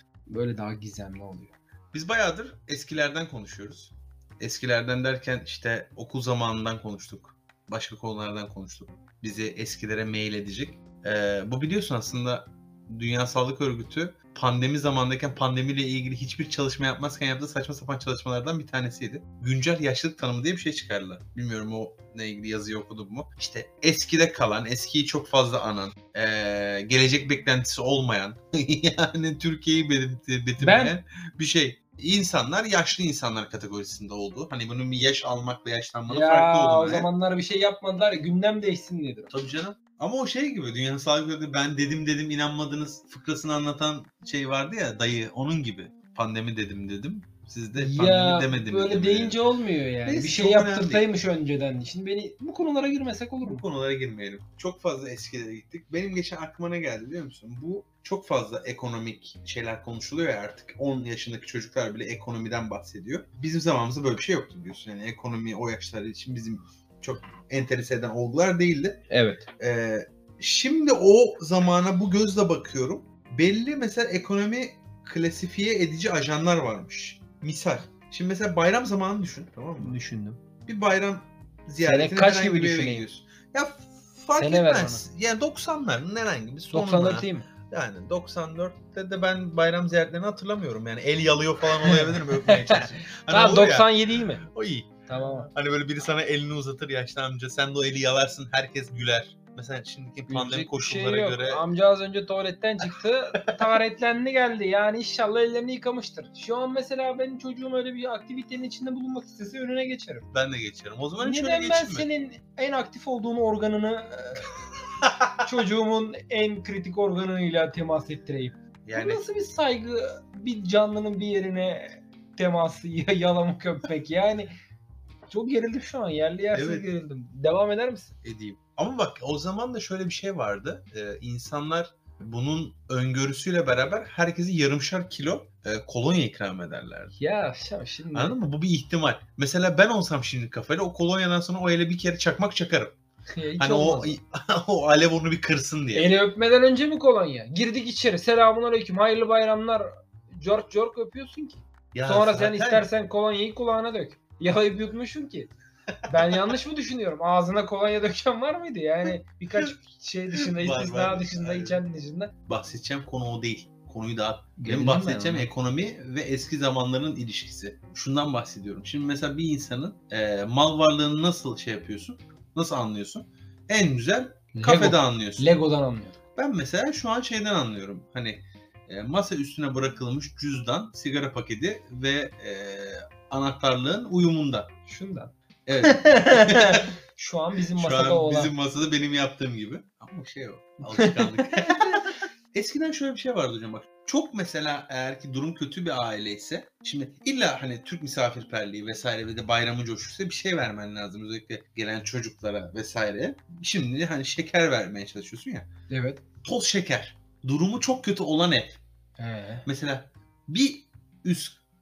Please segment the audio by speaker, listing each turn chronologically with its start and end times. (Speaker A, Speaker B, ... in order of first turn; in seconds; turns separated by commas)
Speaker A: 0.3-1.5, Speaker B: 1.9-37.1, Speaker A: 30.6-30.9, Speaker A: 36.1-39.3, Speaker B: 39.3-49.4, Speaker A: 47.7-53.6, Speaker B: 50.0-51.1, Speaker B: 53.4-69.0, Speaker A: 69.1-69.4, Speaker B: 69.6-80.0, Speaker A: 79.8-80.4, Speaker B: 80.7-101.6, Speaker A: 81.8-83.1, Speaker A: 84.4-85.0, Speaker A: 86.7-87.5, Speaker A: 91.8-94.4, Speaker A: 95.0-95.5, Speaker A: 100.3-110.3, Speaker B: 103.4-103.7, Speaker B: 110.3-112.1, Speaker A: 111.2-114.6, Speaker B: 115.0-115.4, Speaker A: 115.4-124.5, Speaker B: 118.8-119.2, Speaker A: 125.3-128.1, Speaker B: 126.5-126.9, Speaker B: 128.2-137.1, Speaker A: 137.2-138.4, Speaker B: 138.1-142.9, Speaker A: 143.3-144.2, Speaker B: 143.6-146.1, Speaker A: 145.9-155.5, Speaker B: 151.9-152.8, Speaker B: 156.1-156.5, Speaker A: 156.1-162.3, Speaker B: 160.3-161.8, Speaker B: 162.5-175.5, Speaker A: 164.6-165.5, Speaker A: 174.5-176.2, Speaker B: 176.3-184.7, Speaker A: 184.9-185.3, Speaker B: 185.7-186.9, Speaker A: 185.8-188.5, Speaker B: 187.7-205.7, Speaker A: 190.8-191.8, Speaker A: 205.9-206.2, Speaker B: 206.4-208.8, Speaker A: 209.2-209.7, Speaker B: 209.7-211.6